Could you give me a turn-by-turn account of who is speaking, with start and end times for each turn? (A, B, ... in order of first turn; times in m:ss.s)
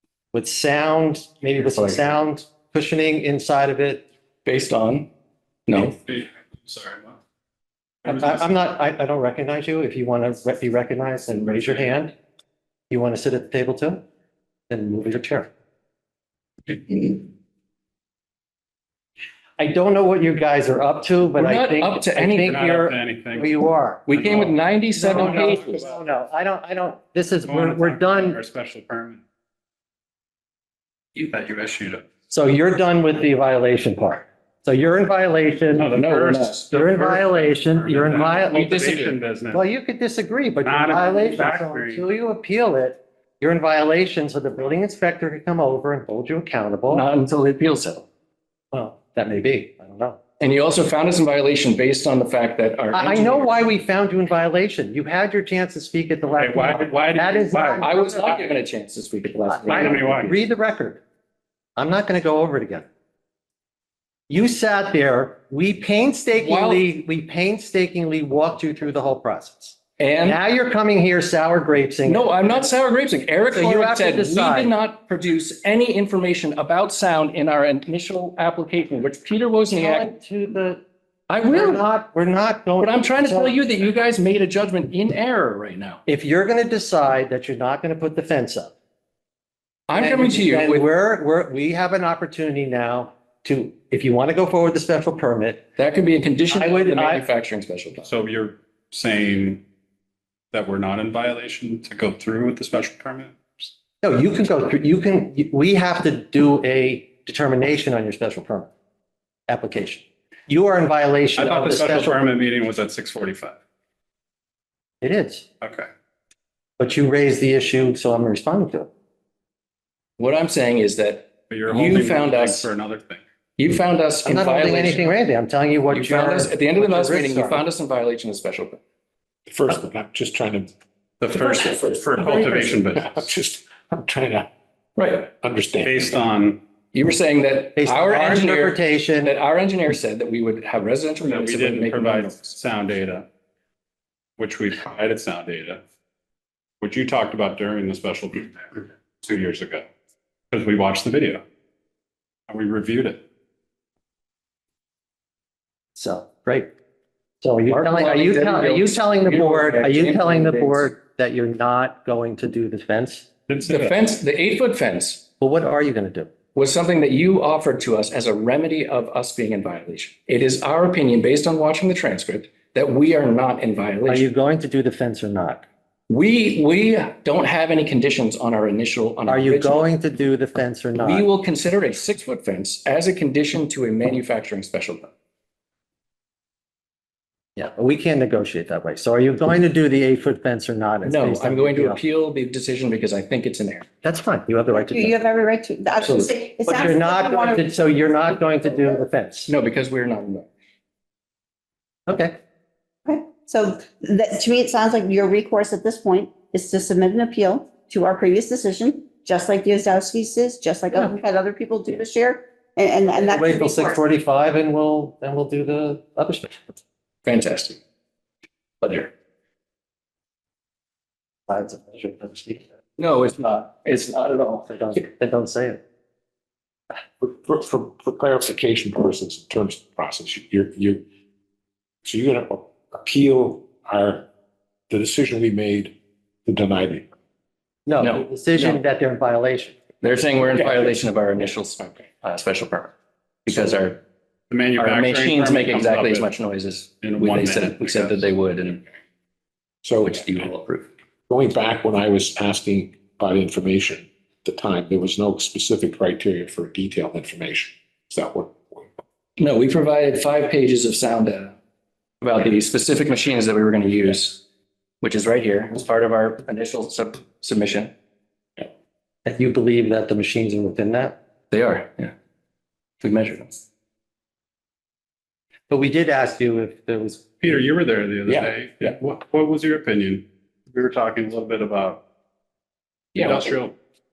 0:00.3-0:04.0 A
0:01.6-0:02.0 B
0:04.5-0:05.1 B
0:05.7-0:06.0 B
0:05.7-0:07.2 C
0:08.0-0:08.5 C
0:08.0-0:12.1 A
0:11.5-0:12.0 C
0:12.9-0:14.0 A
0:14.7-0:15.5 A
0:19.6-0:24.2 A
0:21.3-0:22.6 B
0:22.4-0:23.5 C
0:24.1-0:25.8 B
0:24.1-0:26.0 C
0:25.0-0:28.4 A
0:27.4-0:29.2 C
0:31.2-0:32.0 C
0:32.3-0:36.0 A
0:35.7-0:39.6 C
0:36.0-0:36.7 B
0:36.7-0:38.7 A
0:38.5-0:39.2 B
0:39.5-0:47.1 A
0:40.6-0:42.1 C
0:46.9-0:48.1 B
0:48.7-0:50.2 A
0:50.4-0:53.7 B
0:52.9-0:58.4 A
0:56.3-0:58.0 C
0:57.8-1:00.4 B
0:59.5-1:01.0 A
0:59.7-1:00.3 C
1:01.8-1:02.9 A
1:04.3-1:12.5 A
1:06.4-1:06.9 B
1:10.0-1:10.4 B
1:12.0-1:20.1 B
1:13.5-1:14.7 A
1:19.7-1:20.8 A
1:21.3-1:21.8 B
1:21.4-1:23.6 A
1:22.8-1:26.0 B
1:26.1-1:28.7 A
1:29.9-1:30.9 B
1:29.9-1:35.6 A
1:35.8-1:38.1 B
1:36.5-1:37.3 A
1:38.0-1:39.6 C
1:40.5-1:43.7 C
1:44.0-1:48.7 A
1:49.5-1:52.2 A
1:51.4-1:53.6 C
1:55.0-1:55.5 A
1:55.6-1:55.9 C
1:56.8-1:58.9 A
2:00.2-2:02.7 B
2:01.5-2:03.2 C
2:03.6-2:05.1 B
2:04.2-2:07.6 A
2:05.9-2:08.8 B
2:09.5-2:10.7 D
2:11.2-2:13.3 C
2:11.4-2:14.5 D
2:15.0-2:15.3 B
2:15.3-2:16.2 D
2:15.8-2:16.6 C
2:16.9-2:22.4 B
2:17.8-2:19.4 A
2:21.2-2:23.3 C
2:24.4-2:25.8 C
2:26.8-2:29.9 C
2:30.5-2:31.4 C
2:32.5-2:33.2 C
2:36.0-2:36.7 A
2:37.4-2:43.3 A
2:37.7-2:41.0 B
2:43.5-2:44.1 C
2:43.7-2:45.3 B
2:45.4-2:46.3 A
2:46.6-2:54.3 B
2:54.1-2:55.7 A
2:56.1-2:59.8 B
2:59.3-3:01.3 A
3:01.0-3:05.1 B
3:07.6-3:12.0 A
3:11.0-3:13.9 B
3:14.0-3:15.2 A
3:14.7-3:17.7 E
3:16.0-3:16.3 B
3:16.7-3:19.5 A
3:19.5-3:20.5 B
3:22.1-3:22.4 A
3:23.1-3:34.0 E
3:33.1-3:36.6 A
3:37.2-3:37.8 B
3:38.8-3:39.1 B
3:41.5-3:42.6 A
3:43.0-3:44.8 B
3:44.7-3:45.8 A
3:47.2-3:51.0 D
3:52.0-3:54.3 D
3:54.9-3:57.1 D
3:57.9-3:59.8 A
3:58.0-3:58.8 B
4:00.0-4:02.9 B
4:03.5-4:04.0 B
4:04.5-4:06.4 C
4:04.8-4:08.8 B
4:07.0-4:08.3 C
4:09.8-4:10.4 D
4:10.0-4:10.9 B
4:11.3-4:18.9 D
4:19.4-4:21.6 B
4:22.2-4:24.4 B
4:25.0-4:27.9 B
4:29.2-4:31.2 A
4:31.5-4:32.1 B
4:33.0-4:33.6 B
4:35.7-4:37.5 A
4:37.4-4:42.0 C
4:38.3-4:38.5 B
4:43.2-4:43.8 C